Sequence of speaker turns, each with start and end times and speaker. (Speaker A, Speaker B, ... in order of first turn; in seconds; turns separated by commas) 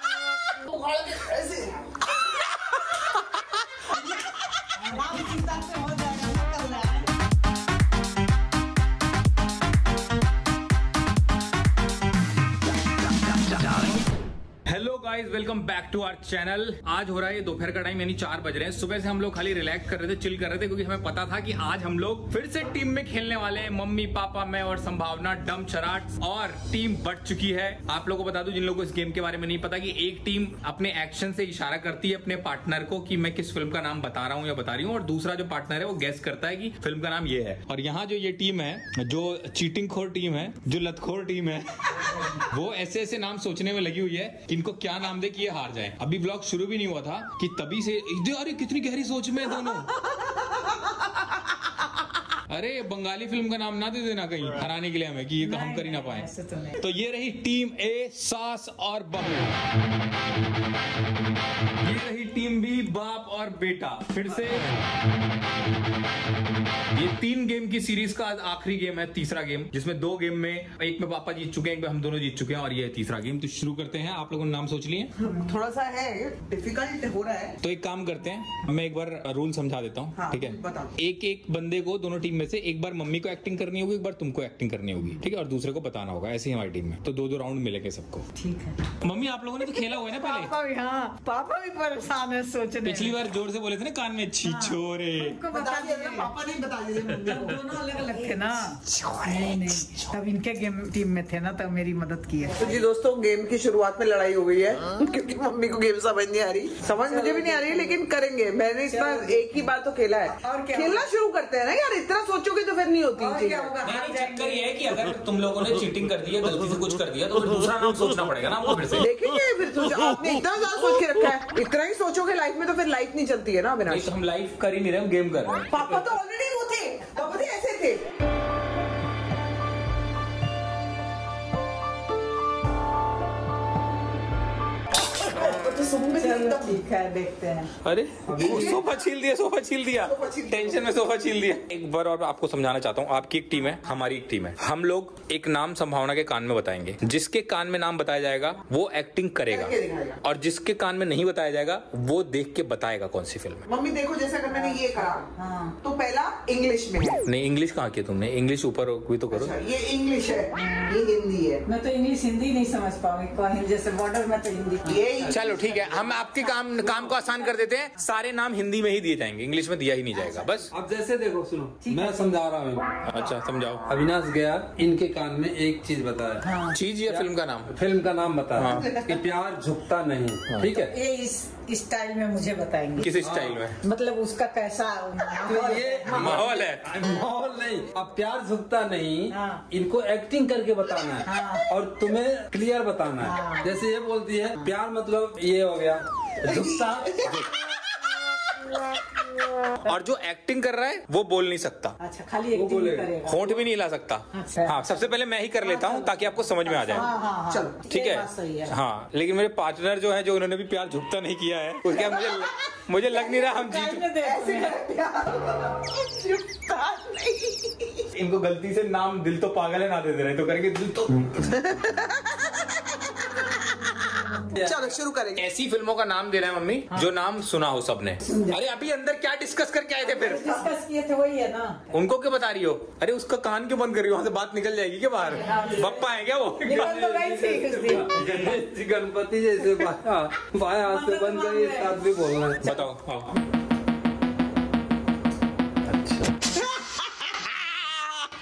Speaker A: 0.6-1.9, Speaker B: 4.8-7.1, Speaker C: 14.7-49.9, Speaker A: 50.0-51.0, Speaker C: 52.5-56.3, Speaker B: 55.4-56.8, Speaker C: 56.8-59.6, Speaker C: 61.8-64.7, Speaker C: 66.9-75.1, Speaker A: 75.2-77.6, Speaker C: 77.6-88.2, Speaker A: 80.2-80.9, Speaker B: 88.3-88.8, Speaker C: 89.0-90.5, Speaker B: 90.0-93.2, Speaker C: 92.8-95.4, Speaker B: 94.4-96.3, Speaker A: 95.5-97.8, Speaker B: 97.2-102.6, Speaker A: 98.8-99.8, Speaker A: 102.5-113.8, Speaker B: 106.9-108.0, Speaker B: 108.9-109.5, Speaker B: 110.4-111.1, Speaker B: 113.2-114.7, Speaker C: 113.8-119.1, Speaker A: 119.0-124.1, Speaker C: 123.9-125.9, Speaker A: 125.7-128.0, Speaker A: 135.3-136.8, Speaker B: 135.4-137.7, Speaker C: 137.8-153.6, Speaker D: 138.3-138.8, Speaker A: 138.3-138.9, Speaker A: 140.0-140.9, Speaker A: 149.5-150.2, Speaker A: 153.7-155.2, Speaker B: 154.5-155.8, Speaker A: 155.8-157.2, Speaker C: 157.3-159.6, Speaker A: 159.3-161.6, Speaker B: 160.6-160.9, Speaker B: 161.7-165.1, Speaker A: 164.8-165.7, Speaker D: 165.3-166.1, Speaker C: 165.3-170.7, Speaker B: 166.4-166.7, Speaker D: 166.8-167.1, Speaker D: 170.7-173.0, Speaker B: 171.8-172.2, Speaker C: 173.0-173.8, Speaker D: 173.9-176.5, Speaker B: 176.4-176.8, Speaker C: 176.7-177.7, Speaker D: 177.1-180.9, Speaker C: 178.6-179.0, Speaker A: 178.6-179.2, Speaker C: 180.5-180.8, Speaker B: 180.8-183.1, Speaker C: 183.0-183.8, Speaker D: 183.2-183.6, Speaker B: 183.8-186.4, Speaker D: 185.4-197.3, Speaker C: 186.1-186.8, Speaker B: 189.3-189.6, Speaker B: 191.2-191.7, Speaker B: 193.2-193.8, Speaker A: 196.4-197.4, Speaker C: 197.2-197.5, Speaker C: 199.8-202.0, Speaker B: 202.0-203.6, Speaker D: 202.5-203.2, Speaker C: 203.2-207.1, Speaker B: 204.3-204.8, Speaker B: 205.6-208.7, Speaker A: 206.7-207.8, Speaker C: 207.9-214.1, Speaker A: 211.9-212.5, Speaker A: 213.1-213.4, Speaker B: 213.4-214.8, Speaker A: 214.2-218.1, Speaker C: 218.2-221.4, Speaker A: 221.4-223.4, Speaker D: 224.6-224.9, Speaker A: 224.6-225.4, Speaker C: 225.4-230.7, Speaker B: 228.2-228.6, Speaker B: 230.0-231.9, Speaker C: 231.9-237.2, Speaker B: 235.2-236.0, Speaker B: 236.6-238.2, Speaker D: 236.8-242.7, Speaker C: 238.1-238.6, Speaker B: 240.8-242.1, Speaker C: 242.6-243.3, Speaker C: 245.9-246.5